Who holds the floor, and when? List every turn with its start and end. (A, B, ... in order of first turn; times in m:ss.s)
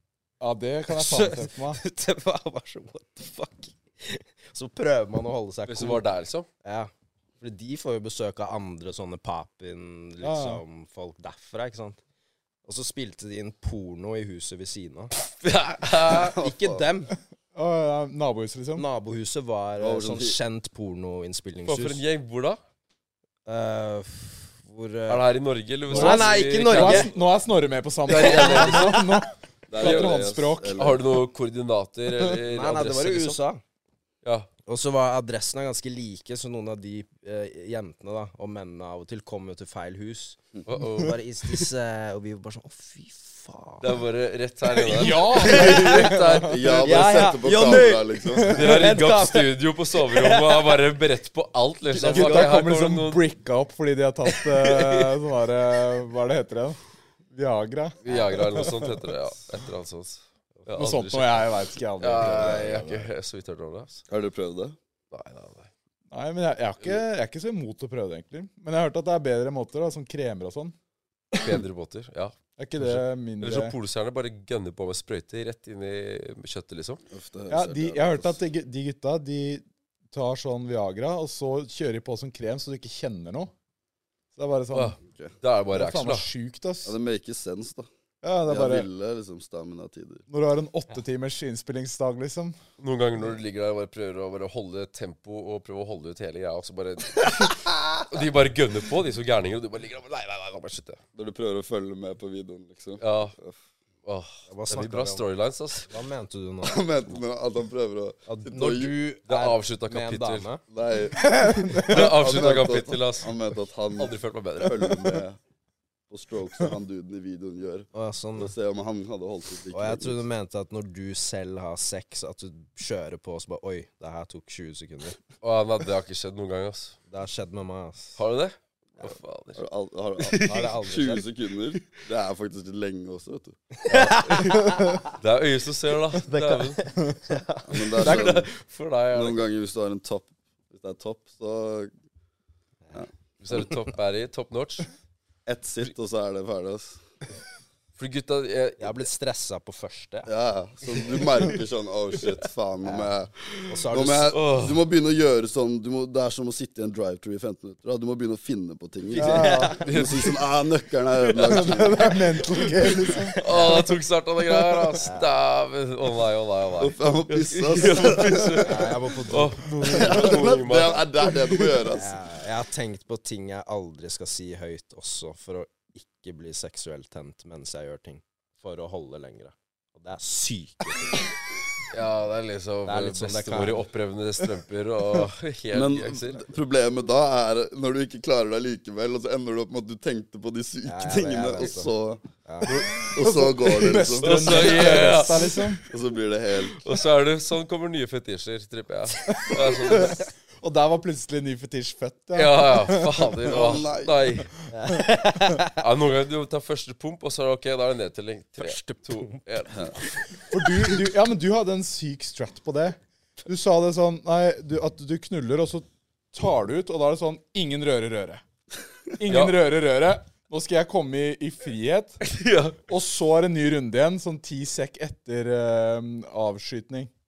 0:00.4-0:01.8 A
0:00.9-0:06.1 B
0:05.6-0:06.5 C
0:06.6-0:12.0 B
0:10.2-0:10.6 A
0:12.6-0:15.1 B
0:15.2-0:16.4 C
0:15.8-0:17.2 B
0:16.2-0:16.8 D
0:17.5-0:18.8 A
0:18.8-0:22.0 B
0:19.8-0:20.4 D
0:21.6-0:22.6 C
0:23.4-0:25.3 B
0:25.1-0:27.1 C
0:25.9-0:27.1 B
0:25.9-0:30.8 A
0:28.0-0:29.2 C
0:28.4-0:28.7 B
0:29.7-0:31.2 D
0:29.7-0:33.4 C
0:32.4-0:33.6 B
0:34.2-0:34.5 C
0:34.7-0:44.0 B
0:40.6-0:41.2 C
0:43.8-0:47.1 C
0:44.8-0:46.6 A
0:45.2-0:46.1 B
0:46.4-0:48.7 D
0:46.8-0:50.8 B
0:48.4-0:53.3 C
0:51.9-0:52.5 B
0:52.0-0:56.8 A
0:54.4-0:55.1 C
0:57.3-0:58.8 A
0:58.0-1:04.0 C
0:58.0-0:58.4 B
1:00.7-1:03.1 A
1:04.1-1:04.8 D
1:05.1-1:05.7 C
1:06.1-1:10.7 A
1:11.3-1:17.0 C
1:12.6-1:13.8 A
1:17.1-1:18.4 D
1:17.5-1:23.5 A
1:24.4-1:25.0 A
1:24.7-1:26.3 C
1:25.7-1:27.0 A
1:26.8-1:27.9 D
1:28.2-1:28.9 A
1:28.4-1:30.2 D
1:30.3-1:32.6 A
1:32.8-1:41.0 C
1:41.1-1:43.6 D
1:43.0-1:43.4 C
1:44.0-1:45.9 C
1:44.5-1:45.3 B
1:45.8-1:46.8 B
1:46.6-1:49.0 D
1:48.3-1:50.6 B
1:49.2-1:50.5 C
1:50.7-1:55.4 D
1:51.2-1:52.0 A
1:51.8-1:53.3 C
1:53.9-1:55.2 C
1:56.1-2:00.2 D
1:57.9-1:58.5 B
1:59.7-2:05.2 B
2:05.4-2:07.0 C
2:07.1-2:08.2 B
2:08.2-2:09.6 C
2:09.5-2:13.6 D
2:10.2-2:10.7 C
2:10.4-2:11.2 B
2:13.8-2:15.1 B
2:13.9-2:14.6 C
2:15.2-2:16.8 C
2:16.2-2:18.3 B
2:17.7-2:18.5 D
2:17.9-2:19.4 C
2:19.1-2:21.9 D
2:22.9-2:23.6 D
2:23.4-2:24.9 C
2:25.4-2:27.0 D
2:28.0-2:29.1 C
2:28.8-2:30.3 B
2:30.2-2:33.3 D
2:32.8-2:33.1 B
2:33.7-2:34.4 B
2:33.9-2:42.2 D
2:34.3-2:34.8 C
2:39.1-2:39.9 B
2:39.2-2:39.8 A
2:39.8-2:40.4 C
2:41.3-2:41.7 C
2:41.4-2:43.4 A
2:43.4-2:51.6 C
2:43.4-2:43.9 B
2:45.0-2:45.3 B
2:46.8-2:48.9 D
2:48.6-2:50.2 B
2:49.8-2:52.2 D
2:51.8-3:01.3 B
3:01.9-3:06.4 C
3:02.8-3:03.9 B
3:05.7-3:12.3 D
3:10.8-3:11.9 B
3:12.4-3:12.9 B
3:12.6-3:13.2 C
3:12.9-3:15.2 D
3:13.2-3:15.8 A
3:14.0-3:15.8 C
3:15.8-3:16.9 D
3:16.8-3:20.2 C
3:19.3-3:23.3 A
3:22.3-3:24.6 C
3:23.4-3:24.4 D
3:24.7-3:25.8 B
3:25.8-3:30.0 C
3:28.6-3:29.4 B
3:30.5-3:38.4 A
3:39.2-3:42.2 A
3:39.3-3:39.6 C
3:42.2-3:42.8 C
3:42.8-3:47.1 A